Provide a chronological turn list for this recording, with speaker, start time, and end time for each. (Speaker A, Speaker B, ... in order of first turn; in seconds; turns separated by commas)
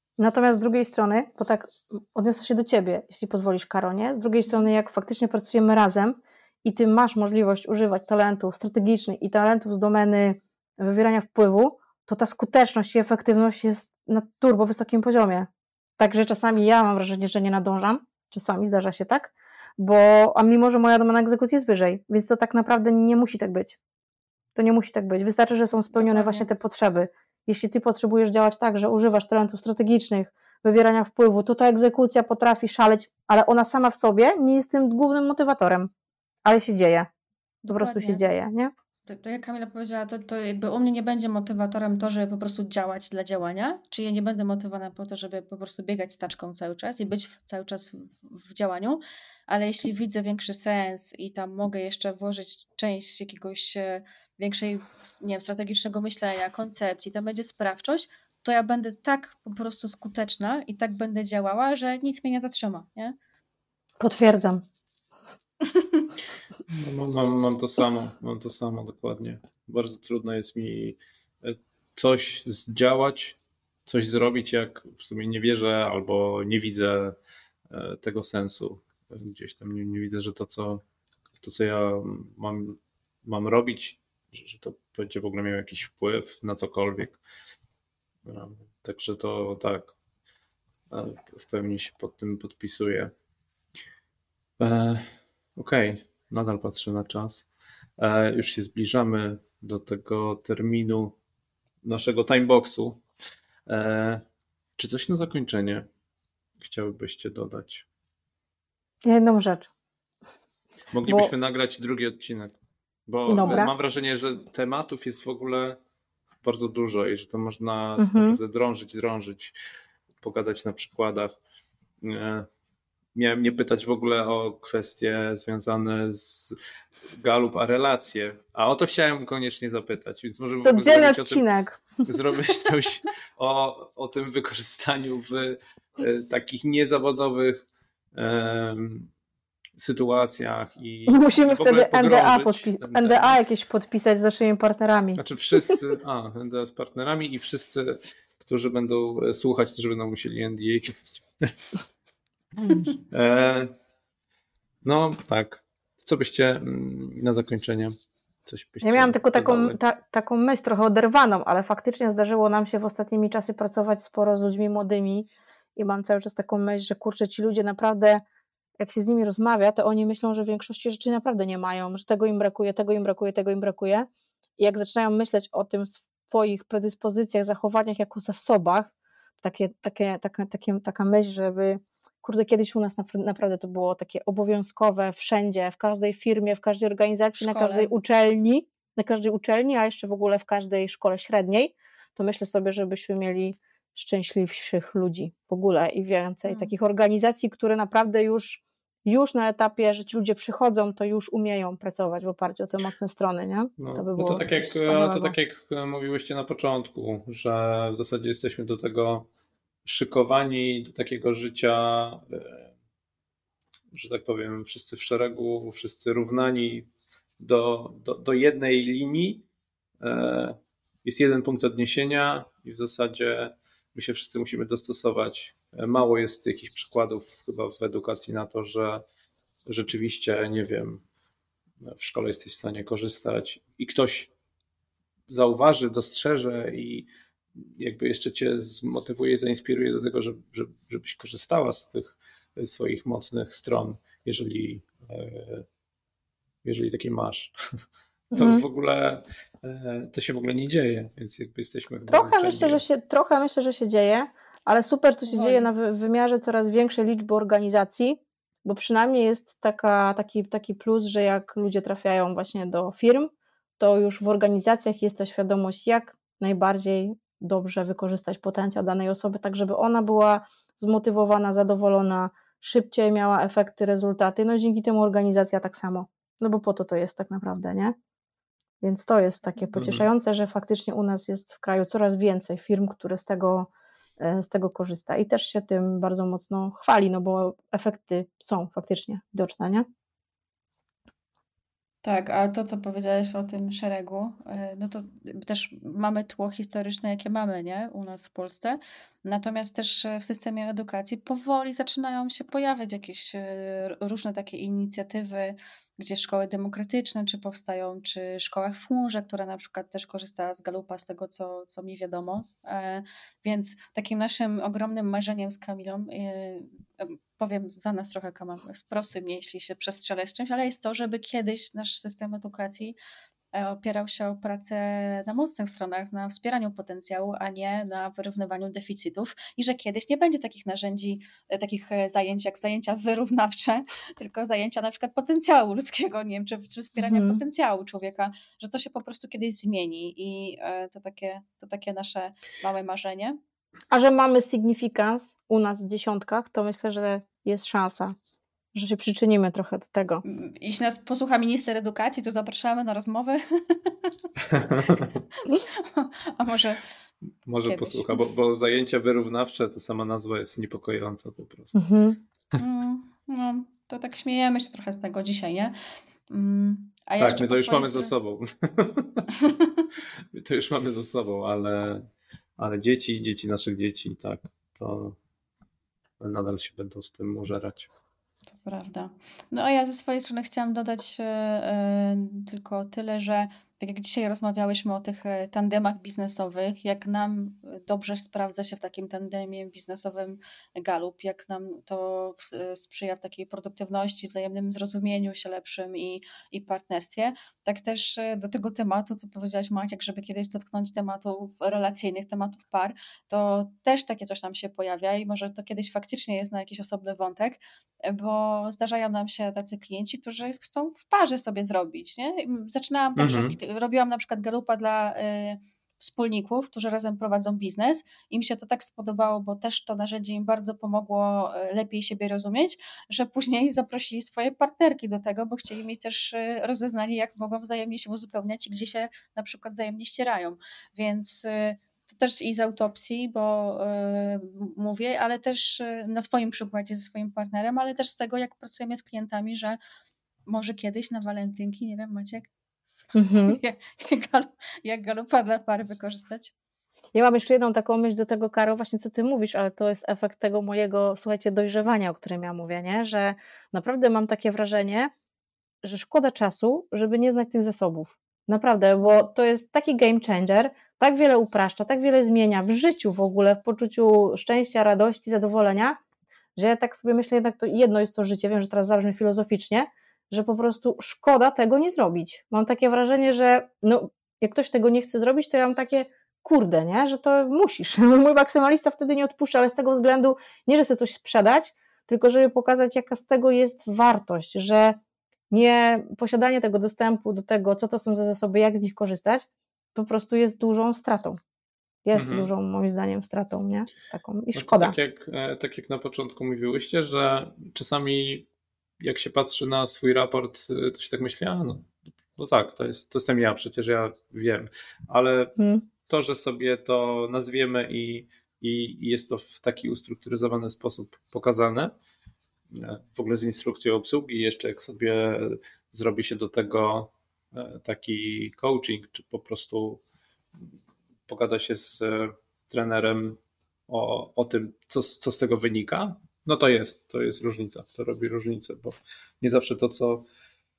Speaker A: 0.2-23.8, Speaker A: 24.6-35.9, Speaker B: 25.9-26.5, Speaker A: 36.5-37.1, Speaker A: 37.6-38.7, Speaker B: 37.7-38.2, Speaker B: 39.1-63.1, Speaker A: 64.0-64.7, Speaker C: 66.7-77.2, Speaker C: 77.7-80.8, Speaker C: 81.4-87.2, Speaker C: 88.2-89.9, Speaker C: 90.9-93.1, Speaker C: 94.6-101.2, Speaker C: 101.8-103.0, Speaker C: 103.7-104.2, Speaker C: 104.8-105.9, Speaker C: 106.6-107.8, Speaker A: 109.0-109.7, Speaker C: 110.9-112.6, Speaker A: 111.1-111.3, Speaker C: 113.1-115.8, Speaker A: 113.3-113.7, Speaker C: 116.4-119.5, Speaker A: 118.0-118.4, Speaker C: 120.2-121.4, Speaker C: 122.0-122.5, Speaker C: 123.2-126.6, Speaker C: 127.1-131.4, Speaker A: 130.6-132.7, Speaker C: 132.1-139.1, Speaker C: 139.8-143.4, Speaker A: 141.1-145.8, Speaker C: 145.2-151.6, Speaker C: 152.6-153.7, Speaker C: 154.8-159.8, Speaker A: 158.8-168.2, Speaker A: 168.8-205.3, Speaker B: 187.4-187.9, Speaker C: 203.8-209.3, Speaker C: 209.8-212.7, Speaker C: 213.9-216.9, Speaker C: 217.4-219.4, Speaker C: 220.0-229.0, Speaker C: 229.7-231.0, Speaker C: 231.8-234.3, Speaker C: 235.3-237.1, Speaker C: 237.8-245.7, Speaker C: 246.6-247.5, Speaker A: 248.3-248.7, Speaker C: 248.3-252.8, Speaker A: 252.1-277.9, Speaker B: 255.3-255.7, Speaker A: 278.8-289.9, Speaker C: 279.8-280.1, Speaker B: 292.0-323.0, Speaker B: 323.5-343.4, Speaker A: 337.0-337.4, Speaker A: 343.9-348.2, Speaker A: 348.7-350.2, Speaker B: 350.2-354.1, Speaker C: 354.5-355.1, Speaker B: 355.4-356.8, Speaker C: 357.4-361.8, Speaker B: 357.6-358.3, Speaker A: 361.8-362.2, Speaker B: 362.6-365.8, Speaker B: 366.3-368.1, Speaker C: 367.2-369.3, Speaker C: 370.3-372.1, Speaker C: 372.6-375.2, Speaker C: 376.2-377.9, Speaker B: 378.6-439.8, Speaker C: 413.2-413.6, Speaker B: 440.5-442.5, Speaker A: 443.1-443.6, Speaker B: 443.4-446.5, Speaker A: 447.1-455.1, Speaker A: 455.8-466.0, Speaker A: 466.6-485.0, Speaker A: 485.5-491.4, Speaker A: 492.1-494.9, Speaker C: 492.1-492.5, Speaker C: 494.5-498.5, Speaker C: 499.0-511.9, Speaker A: 505.6-505.9, Speaker C: 512.7-520.0, Speaker C: 521.3-530.3